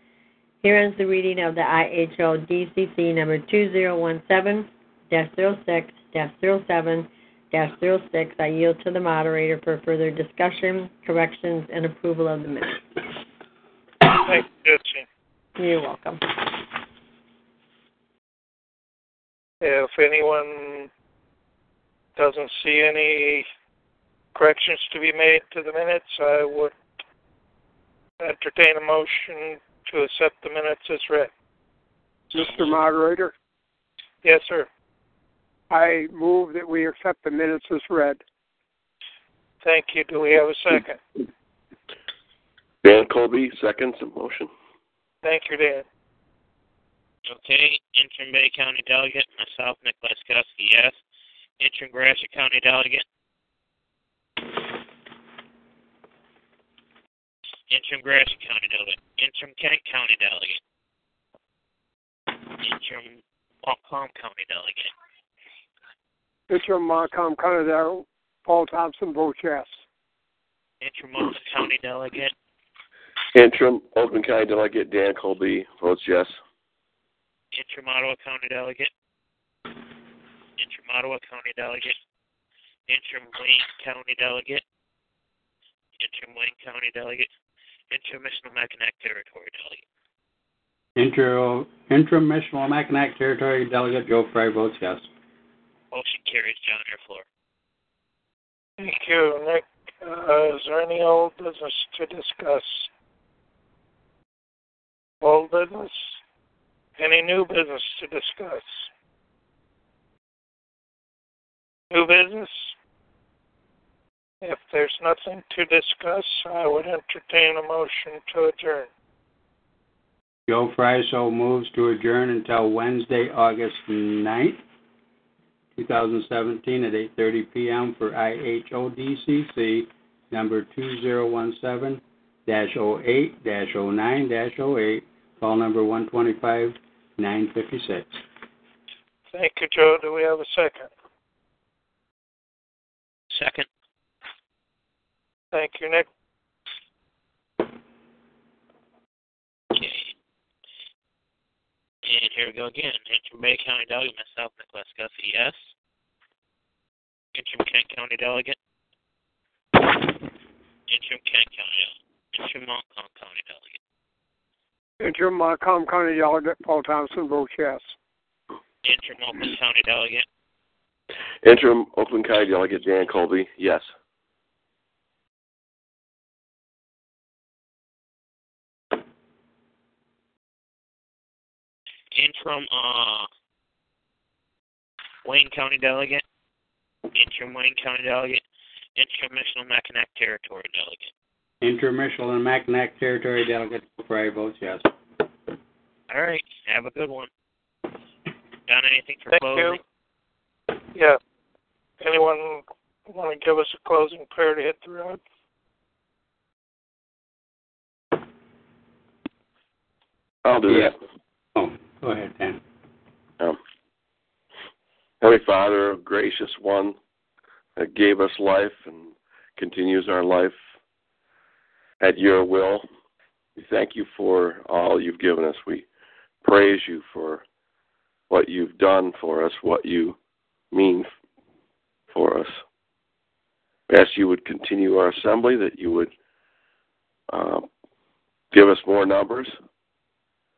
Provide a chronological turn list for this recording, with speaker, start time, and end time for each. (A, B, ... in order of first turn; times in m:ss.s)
0:00.6-0:12.8 A
0:14.2-0:15.0 B
0:15.6-0:16.6 A
0:19.6-0:20.9 B
0:22.2-0:23.4 B
0:24.3-0:26.7 B
0:28.2-0:31.3 B
0:32.3-0:33.3 C
0:32.4-0:32.8 B
0:34.2-0:34.7 B
0:35.7-0:38.2 C
0:39.6-0:41.0 B
0:42.8-0:44.5 D
0:45.2-0:45.8 B
0:47.3-0:50.9 E
0:51.6-0:53.0 E
0:57.7-1:00.6 E
1:02.4-1:04.9 E
1:06.5-1:09.7 C
1:10.8-1:12.3 E
1:13.3-1:16.3 D
1:17.5-1:18.9 E
1:20.6-1:21.9 E
1:22.9-1:24.6 E
1:26.0-1:27.3 E
1:27.9-1:29.8 E
1:31.0-1:35.1 F
1:35.9-1:37.2 E
1:38.8-1:42.9 B
1:45.2-1:46.2 B
1:47.0-1:48.8 B
1:51.9-1:52.7 B
1:54.4-1:58.9 B
2:00.5-2:04.6 F
2:05.8-2:18.2 F
2:19.3-2:20.9 B
2:23.3-2:23.7 E
2:25.5-2:26.1 B
2:29.7-2:30.1 E
2:32.0-2:35.6 E
2:37.3-2:38.6 E
2:39.8-2:40.2 E
2:40.9-2:43.8 E
2:45.0-2:47.9 C
2:48.8-2:50.2 E
2:51.4-2:53.8 D
3:02.1-3:03.3 E
3:05.2-3:06.2 E
3:07.1-3:08.4 E
3:09.0-3:11.1 E
3:11.6-3:14.9 F
3:16.1-3:17.3 E
3:18.7-3:19.8 E
3:19.3-3:19.8 B
3:22.0-3:25.2 B
3:30.4-3:30.9 D
3:30.6-3:30.9 F
3:31.6-3:32.6 F
3:35.2-3:37.0 D
3:37.8-3:40.5 D
3:42.0-3:42.8 D
3:43.6-3:45.8 D
3:46.4-3:47.4 D
3:48.3-3:50.2 D
3:50.7-3:51.1 D
3:52.1-3:52.5 D
3:53.9-3:56.1 D
3:57.3-3:57.6 D
3:58.5-3:59.5 D